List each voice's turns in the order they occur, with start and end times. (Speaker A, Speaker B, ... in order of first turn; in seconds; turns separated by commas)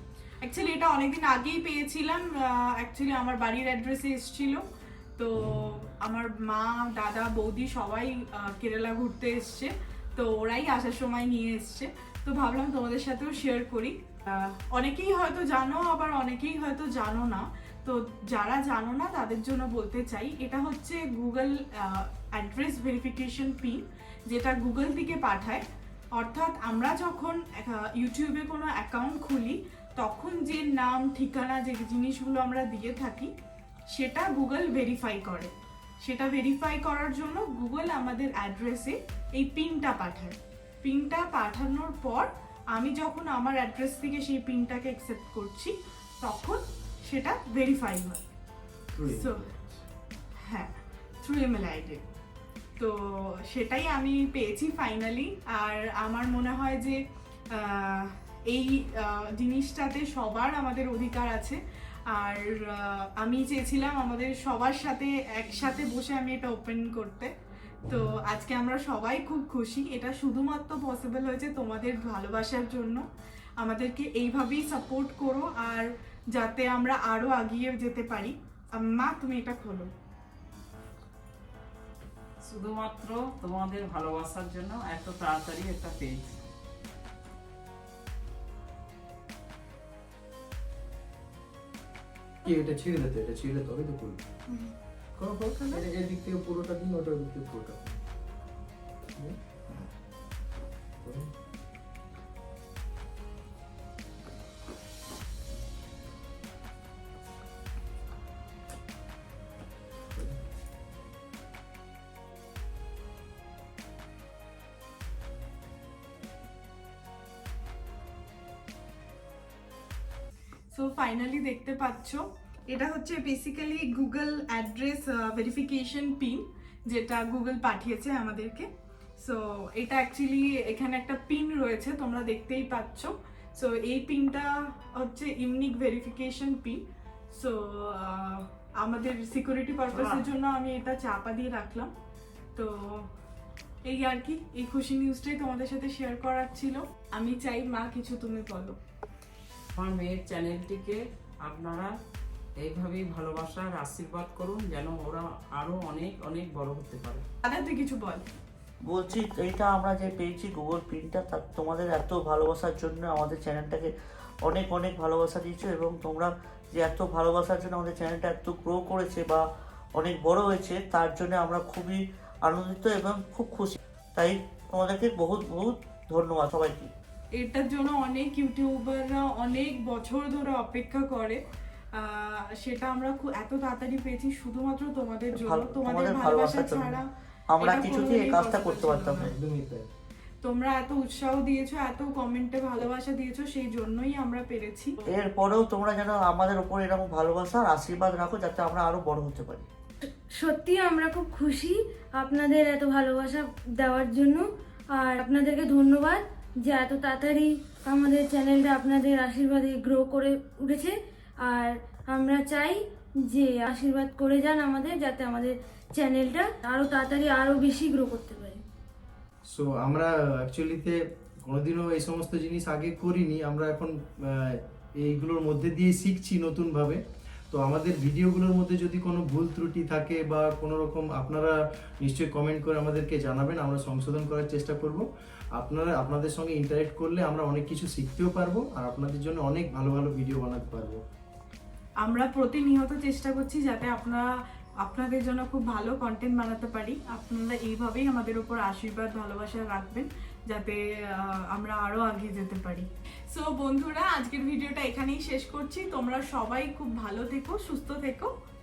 Speaker A: 0.4-4.6, Speaker A: 5.2-33.3, Speaker A: 33.9-48.2, Speaker B: 48.9-49.8, Speaker A: 49.1-49.4, Speaker A: 50.4-52.0, Speaker A: 52.8-67.3, Speaker A: 67.9-73.0, Speaker A: 73.6-79.9, Speaker C: 82.4-86.4, Speaker B: 92.4-94.2, Speaker B: 95.2-98.0, Speaker B: 101.0-101.3, Speaker A: 120.7-141.9, Speaker C: 139.9-140.2, Speaker A: 142.6-143.1, Speaker A: 143.8-148.8, Speaker C: 149.8-151.9, Speaker C: 152.6-157.2, Speaker A: 157.4-158.2, Speaker D: 158.8-163.9, Speaker D: 164.4-169.4, Speaker D: 169.9-176.9, Speaker A: 177.3-181.4, Speaker A: 181.9-187.1, Speaker D: 185.3-187.0, Speaker D: 187.5-189.3, Speaker A: 187.6-189.3, Speaker B: 189.2-189.9, Speaker A: 190.4-195.0, Speaker D: 195.0-199.7, Speaker E: 200.0-218.6, Speaker B: 219.5-227.0, Speaker B: 227.5-241.0, Speaker A: 242.0-244.3, Speaker A: 244.8-258.3